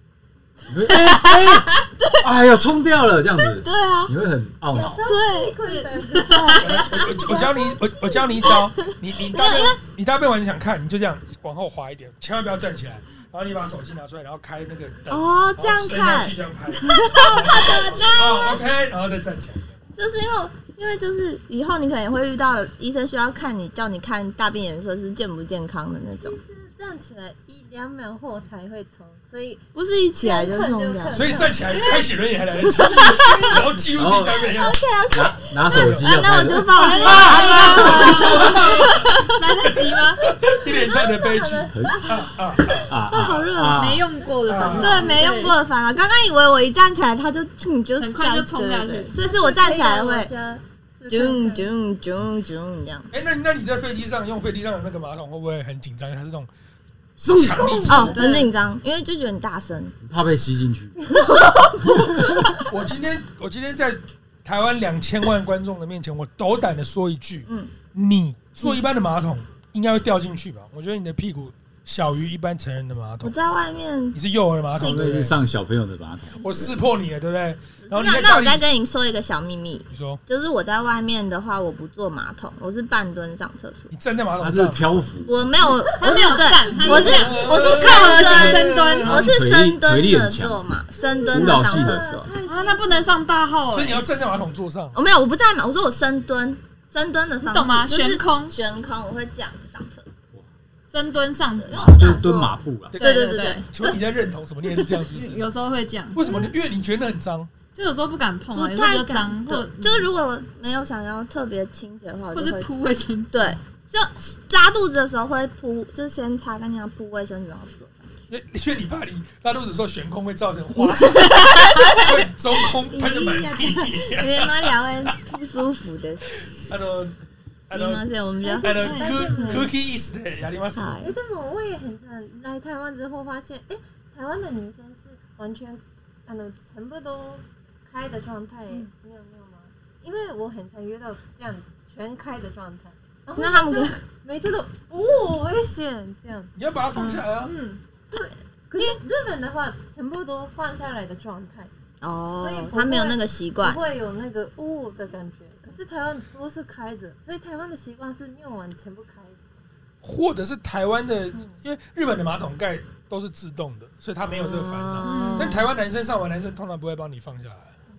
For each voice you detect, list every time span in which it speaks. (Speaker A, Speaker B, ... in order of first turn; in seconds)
Speaker A: 0.7-5.0, 33.9-34.5, 35.1-37.1, 41.7-42.0, 42.9-44.1, 57.3-58.0, 60.0-61.0, 74.8-76.6, 84.4-85.4, 89.1-90.6, 91.3-92.0, 101.8-103.0
Speaker B: 1.0-2.1, 3.6-4.1, 5.0-5.6, 6.3-7.6, 8.4-9.7, 15.1-18.6, 20.0-26.4, 29.7-31.5, 32.7-33.6, 34.5-39.4, 42.8-43.9, 44.6-50.3, 51.1-53.1, 57.9-60.0, 61.2-62.1, 67.5-67.8, 73.2-74.2, 74.7-75.1, 77.8-83.9, 85.2-92.3, 94.9-100.0, 101.6-103.7, 108.6-112.7, 113.3-118.1, 121.5-122.1, 122.8-126.4, 127.7-129.7, 130.8-131.1, 143.4-144.0, 147.0-147.2, 152.0-153.8, 164.3-165.7
Speaker C: 4.7-7.6, 26.2-29.6, 30.2-31.6, 37.2-38.5, 40.9-42.8, 49.1-51.7, 86.0-87.3, 91.0-93.2, 128.4-129.7, 131.0-146.5, 148.1-151.7, 152.4-159.4
Speaker D: 5.6-6.9, 17.6-17.9, 31.7-32.0, 36.7-40.2, 43.7-45.6, 48.0-49.2, 58.0-58.5, 86.0-89.2, 92.5-94.0, 97.5-98.6, 100.9-102.3, 103.0-104.0, 104.7-106.4, 107.8-110.1, 112.3-113.6, 121.2-122.0, 128.6-129.1, 147.0-147.8, 165.0-165.7
Speaker E: 6.5-19.7, 31.1-34.8, 35.7-36.2, 37.1-43.0, 44.5-45.1, 53.1-56.5, 57.2-58.2, 62.7-73.3, 74.1-75.4, 76.4-78.6, 79.9-80.2, 83.9-85.0, 86.7-89.3, 93.7-95.0, 102.9-105.4, 106.1-107.5, 118.3-125.1, 126.3-127.2, 127.7-128.1, 128.6-131.0, 146.6-147.6, 160.0-167.7